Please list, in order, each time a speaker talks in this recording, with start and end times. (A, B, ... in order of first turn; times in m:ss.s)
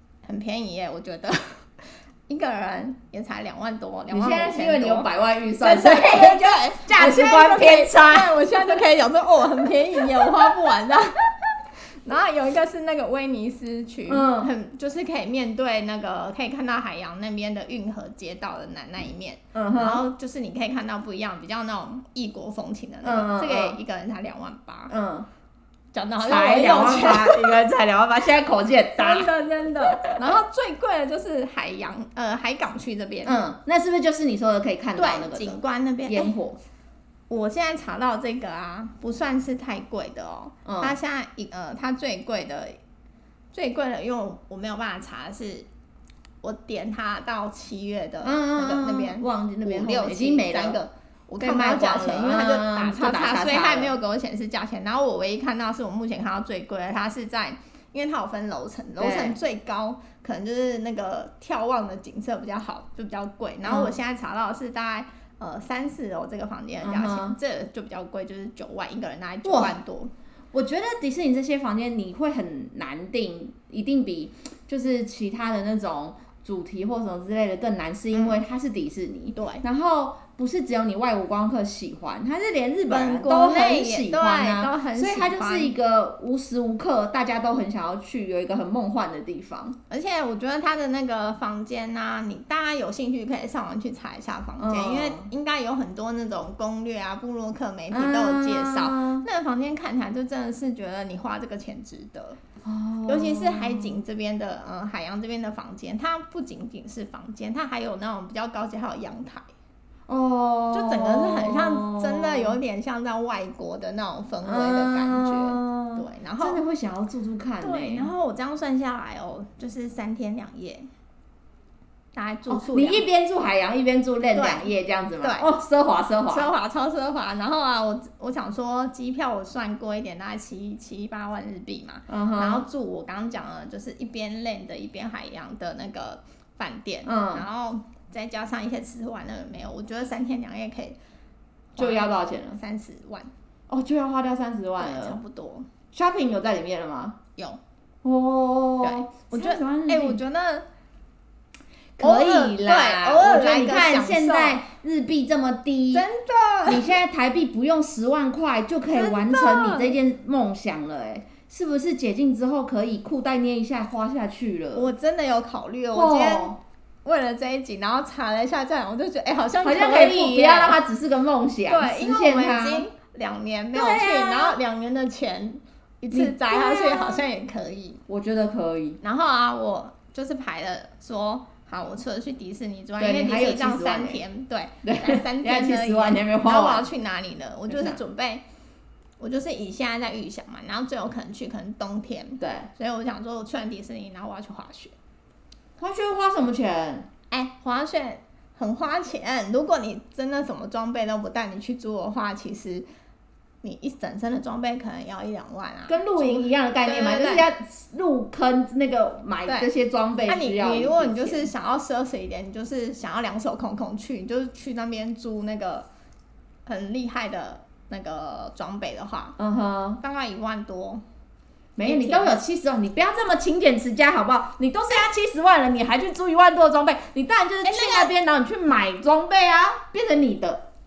0:00.2-0:24.9 A
0:04.1-0:08.8 B
0:10.0-0:10.5 B
0:14.1-0:14.5 B
0:19.5-0:20.1 B
0:23.0-0:23.8 B
0:24.9-0:25.3 B
0:25.9-0:27.6 A
0:26.2-0:29.3 B
0:29.0-0:33.4 A
0:33.2-0:36.6 B
0:35.0-0:36.4 A
0:37.3-0:42.8 A
0:40.6-0:41.0 B
0:43.5-0:45.7 A
0:46.4-1:10.1 A
0:48.2-0:50.8 B
0:51.4-0:54.0 B
0:59.0-0:59.4 B
1:03.6-1:03.9 B
1:06.8-1:07.4 B
1:09.4-1:09.8 B
1:10.5-1:29.8 B
1:18.1-1:18.4 A
1:19.4-1:19.6 A
1:22.9-1:25.8 A
1:29.9-1:42.4 A
1:34.6-1:35.3 B
1:37.9-1:39.2 B
1:42.6-1:44.0 B
1:43.1-1:49.5 A
1:50.1-1:52.6 B
1:50.7-1:56.6 A
1:54.4-1:58.1 B
1:57.6-2:00.9 A
2:02.1-2:03.0 A
2:02.5-2:06.5 B
2:04.3-2:04.7 A
2:05.2-2:05.5 A
2:06.3-2:21.0 A
2:12.1-2:12.7 B
2:17.0-2:17.5 B
2:21.7-2:23.3 A
2:21.8-2:22.6 B
2:23.7-2:25.2 B
2:24.8-2:25.7 A
2:25.9-2:27.2 B
2:28.0-2:30.2 B
2:28.8-2:30.6 A
2:32.0-2:36.1 B
2:32.0-2:34.6 A
2:35.9-2:36.9 A
2:36.7-2:44.9 B
2:38.9-2:40.0 A
2:44.7-2:50.8 A
2:45.9-2:46.6 B
2:49.6-2:52.9 B
2:51.7-2:58.0 A
2:53.7-2:54.6 B
2:56.1-2:57.2 B
2:58.1-2:59.0 B
2:59.0-3:08.4 A
3:03.0-3:04.2 B
3:04.8-3:06.9 B
3:07.7-3:08.0 B
3:09.2-3:15.0 A
3:12.4-3:12.7 B
3:15.8-3:17.1 B
3:17.3-3:22.9 A
3:23.6-3:27.5 A
3:25.9-3:31.5 B
3:30.3-3:35.9 A
3:36.7-3:39.4 A
3:39.4-3:40.0 B
3:40.0-3:41.0 A
3:41.8-3:50.7 B
3:41.8-3:42.4 A
3:47.6-3:48.1 A